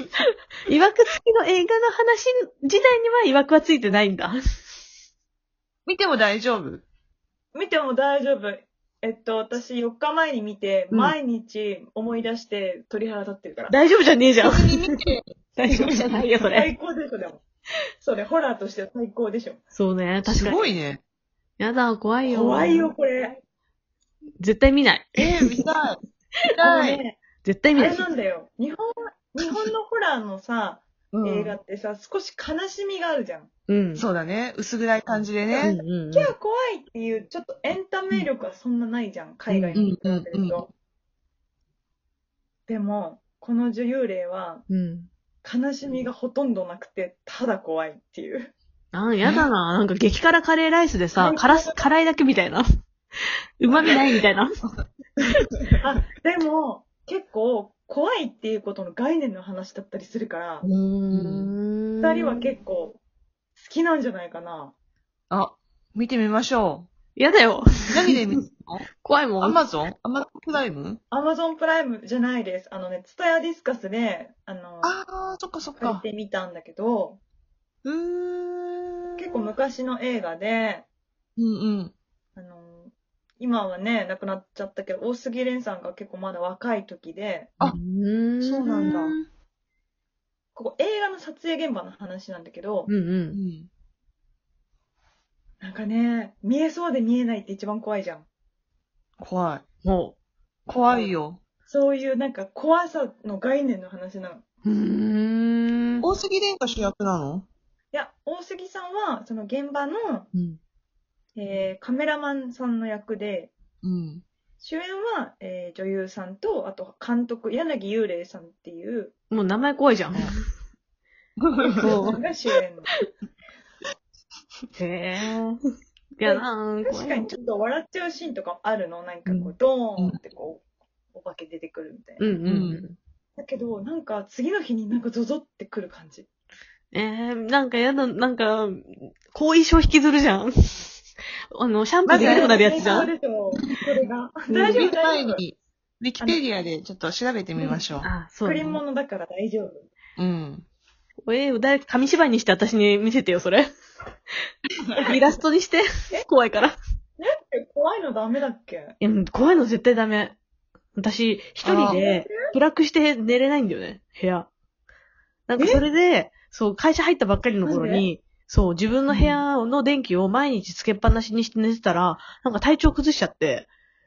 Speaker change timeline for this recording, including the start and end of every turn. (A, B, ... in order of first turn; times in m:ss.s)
0:00.6-0:04.4 A
0:05.9-0:06.8 B
0:07.5-0:13.8 C
0:10.9-0:11.2 A
0:13.7-0:14.9 A
0:14.4-0:16.0 B
0:15.6-0:16.7 A
0:16.4-0:17.4 C
0:18.0-0:19.6 C
0:19.7-0:20.8 A
0:20.2-0:21.0 B
0:21.6-0:22.9 A
0:22.2-0:23.4 C
0:24.4-0:25.4 A
0:25.2-0:26.0 B
0:26.5-0:27.0 B
0:26.6-0:27.2 C
0:27.4-0:28.1 A
0:27.8-0:33.5 C
0:31.1-0:31.6 B
0:33.7-0:34.0 A
0:34.0-0:35.8 B
0:35.5-0:40.7 C
0:35.6-0:36.3 A
0:39.8-0:40.7 B
0:42.7-0:44.6 C
0:44.7-0:45.1 A
0:45.4-0:48.5 C
0:48.9-0:52.6 A
0:51.2-0:51.8 C
0:53.6-0:54.5 A
0:55.8-1:00.6 C
1:00.6-1:02.4 A
1:01.1-1:01.5 B
1:02.0-1:03.0 C
1:03.6-1:04.7 C
1:05.3-1:06.9 B
1:07.2-1:08.2 A
1:07.9-1:08.9 B
1:09.0-1:09.6 A
1:09.4-1:11.0 B
1:11.1-1:15.0 C
1:14.8-1:16.0 B
1:15.8-1:17.2 C
1:17.8-1:19.5 B
1:19.2-1:20.9 C
1:21.4-1:21.9 B
1:22.4-1:27.5 C
1:27.6-1:29.2 A
1:28.4-1:29.2 B
1:30.5-1:32.9 C
1:32.9-1:33.4 A
1:33.3-1:33.7 B
1:35.6-1:38.2 C
1:39.2-1:39.6 B
1:39.8-1:40.1 A
1:40.7-1:41.4 B
1:41.7-1:44.4 C
1:44.6-1:46.1 A
1:46.0-1:47.4 B
1:47.9-1:50.3 C
1:50.3-1:50.6 A
1:51.4-1:53.5 C
1:53.8-1:54.2 B
1:54.6-1:59.1 C
1:59.3-2:00.4 A
2:01.4-2:02.2 B
2:01.6-2:02.9 C
2:01.8-2:02.2 A
2:04.8-2:05.6 A
2:06.2-2:07.3 A
2:06.2-2:12.3 C
2:09.3-2:09.5 A
2:12.2-2:13.0 A
2:12.4-2:12.8 B
2:13.4-2:16.3 C
2:16.9-2:21.0 A
2:21.5-2:23.1 A
2:22.0-2:23.1 B
2:22.1-2:25.4 C
2:24.5-2:28.1 B
2:28.0-2:28.8 A
2:28.4-2:29.9 C
2:30.2-2:30.6 B
2:31.2-2:33.7 A
2:34.9-2:35.2 C
2:35.0-2:36.8 A
2:37.2-2:39.0 C
2:39.0-2:40.4 A
2:41.0-2:44.5 A
2:41.6-2:42.0 B
2:41.7-2:42.5 C
2:45.5-2:53.7 A
2:45.6-2:45.8 C
2:47.6-2:48.1 C
2:49.1-2:49.4 B